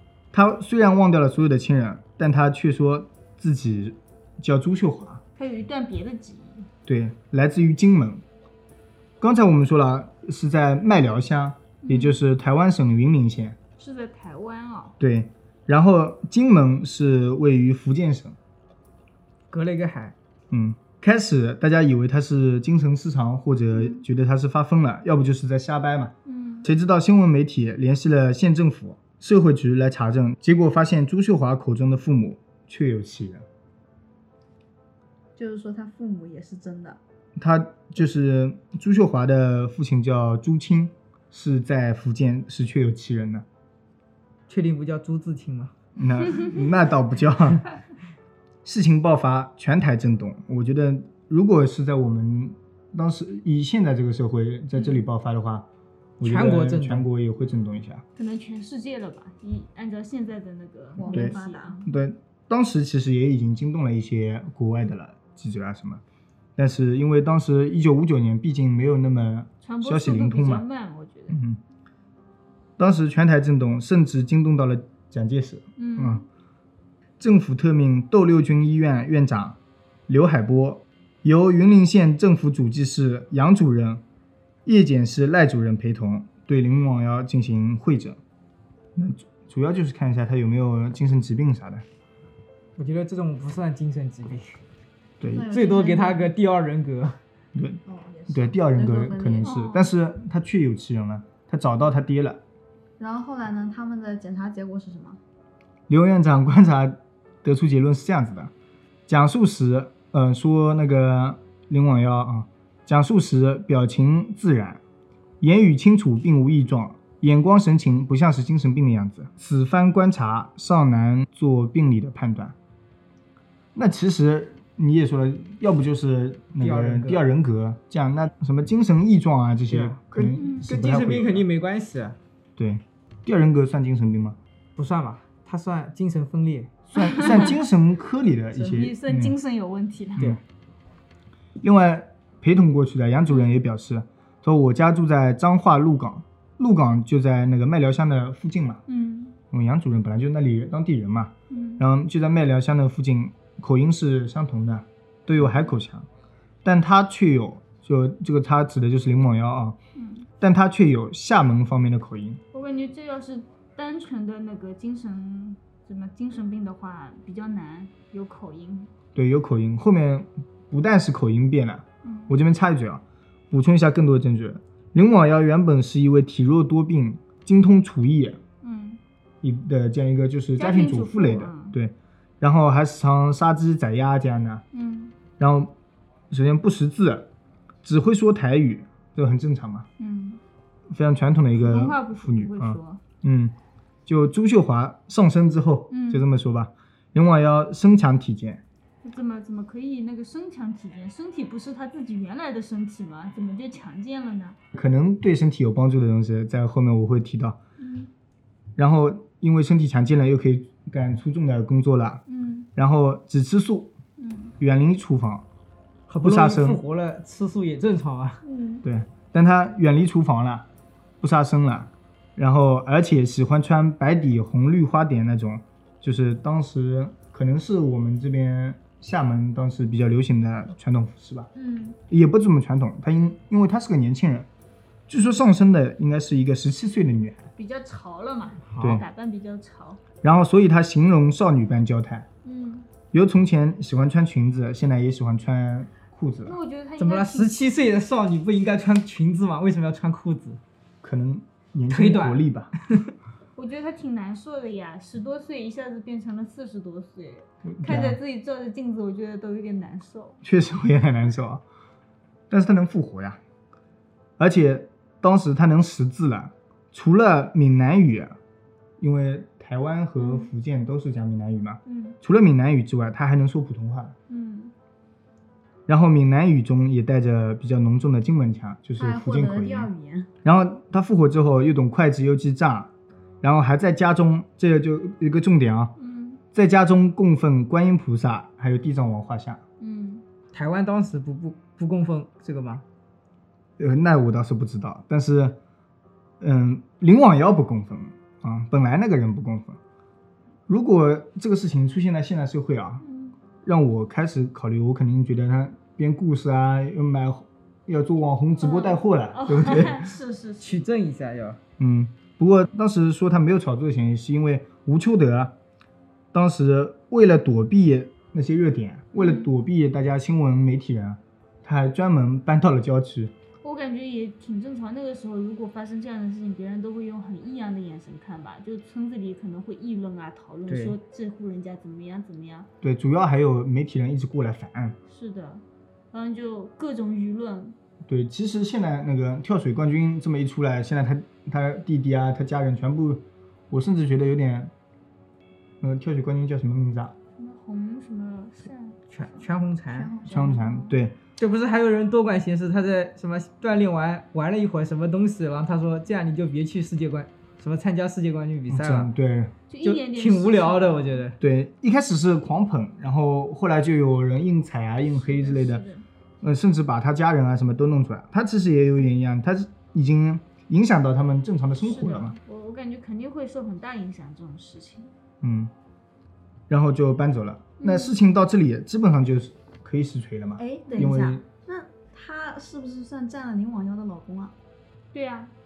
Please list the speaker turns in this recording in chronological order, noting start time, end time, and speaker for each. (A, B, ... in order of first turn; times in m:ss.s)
0:00.3-0:05.2 A
0:05.4-0:06.7 B
0:06.9-0:08.2 A
0:09.2-0:13.6 A
0:11.8-0:12.2 B
0:13.8-0:15.0 B
0:15.0-0:18.4 A
0:19.5-0:20.2 C
0:20.5-0:33.5 A
0:23.7-0:24.0 B
0:26.3-0:26.7 B
0:35.4-0:37.0 D
0:37.4-0:43.4 A
0:44.5-0:45.7 C
0:46.0-0:47.6 A
0:48.6-0:55.7 A
0:56.2-0:58.0 A
0:56.2-0:57.0 C
0:58.2-1:01.9 B
1:01.0-1:01.8 D
1:01.1-1:06.0 A
1:06.6-1:10.6 A
1:09.6-1:11.4 B
1:11.3-1:11.6 A
1:12.8-1:16.2 A
1:15.8-1:16.2 B
1:17.2-1:24.0 A
1:24.6-1:28.2 A
1:29.0-1:31.8 A
1:32.8-1:34.6 C
1:35.2-1:35.5 A
1:35.3-1:36.3 D
1:35.5-1:37.2 C
1:37.6-1:42.4 A
1:37.9-1:39.5 D
1:39.4-1:39.9 B
1:43.0-1:45.2 D
1:45.9-1:48.5 A
1:49.1-1:54.8 A
1:55.4-2:02.6 A
2:03.8-2:11.5 A
2:06.6-2:07.2 C
2:09.7-2:12.2 C
2:10.4-2:10.7 B
2:12.6-2:14.4 A
2:14.8-2:16.9 C
2:16.9-2:19.3 A
2:17.0-2:17.5 B
2:18.6-2:20.4 B
2:21.6-2:28.8 A
2:28.9-2:29.4 B
2:29.5-2:36.1 A
2:31.5-2:31.8 B
2:35.4-2:35.7 B
2:36.6-2:39.8 A
2:40.0-2:40.3 B
2:40.4-2:42.4 A
2:42.5-2:48.9 B
2:49.2-2:58.4 A
2:52.0-2:52.4 B
2:58.6-2:59.0 B
2:59.4-3:04.6 A
3:00.6-3:01.8 B
3:04.7-3:05.1 B
3:05.4-3:05.8 A
3:06.3-3:07.3 A
3:07.8-3:09.9 A
3:10.0-3:10.4 B
3:10.9-3:13.6 A
3:11.6-3:13.0 B
3:14.1-3:18.6 A
3:15.9-3:16.3 B
3:19.0-3:24.6 B
3:24.7-3:27.6 A
3:27.8-3:28.1 B
3:28.8-3:32.2 A
3:32.3-3:32.7 B
3:32.8-3:33.9 A
3:34.2-3:34.5 B
3:34.6-3:35.4 A
3:36.1-3:38.4 C
3:36.2-3:36.8 A
3:38.4-3:38.8 B
3:38.8-3:40.7 A
3:41.2-3:51.5 A
3:51.6-3:52.0 B
3:52.1-3:54.5 A
3:55.1-3:57.5 A
3:57.6-4:00.0 B
3:58.7-3:59.0 C
3:58.8-3:59.0 A
4:00.2-4:02.3 A
4:02.4-4:02.9 B
4:03.1-4:06.6 A
4:06.4-4:07.6 B
4:07.0-4:10.6 C
4:11.0-4:12.7 A
4:11.9-4:13.0 C
4:13.6-4:20.4 B
4:17.6-4:18.2 A
4:20.4-4:21.6 A
4:22.5-4:23.4 A
4:24.4-4:28.4 A
4:29.0-4:34.2 A
4:30.2-4:30.5 B
4:31.9-4:32.2 B
4:34.3-4:34.7 B
4:35.9-4:39.9 A
4:39.0-4:40.3 D
4:40.4-4:42.9 A
4:43.4-4:45.9 A
4:46.0-4:46.4 B
4:46.5-4:49.6 A
4:49.8-4:50.2 B
4:50.5-4:52.8 C
4:53.8-4:55.6 A
4:56.4-4:59.8 A
5:00.7-5:03.0 A
5:03.0-5:03.4 B
5:03.6-5:10.1 A
5:08.6-5:10.8 B
5:10.6-5:11.6 C
5:11.8-5:15.6 A
5:16.3-5:23.3 A
5:19.2-5:19.5 B
5:23.6-5:32.7 B
5:30.7-5:31.0 C
5:32.8-5:35.0 A
5:35.1-5:37.8 B
5:38.1-5:44.7 A
5:45.8-5:47.2 A
5:47.4-5:51.0 B
5:49.1-5:50.1 C
5:50.2-5:51.2 A
5:51.4-5:59.1 C
5:58.7-5:59.6 A
5:59.7-6:01.2 B
5:59.8-6:01.4 C
6:01.4-6:05.8 A
6:05.2-6:06.0 B
6:06.4-6:12.4 A
6:11.8-6:15.1 B
6:15.4-6:15.7 A
6:16.7-6:21.4 A
6:17.8-6:18.2 B
6:20.6-6:24.5 D
6:20.9-6:21.2 B
6:25.1-6:25.5 B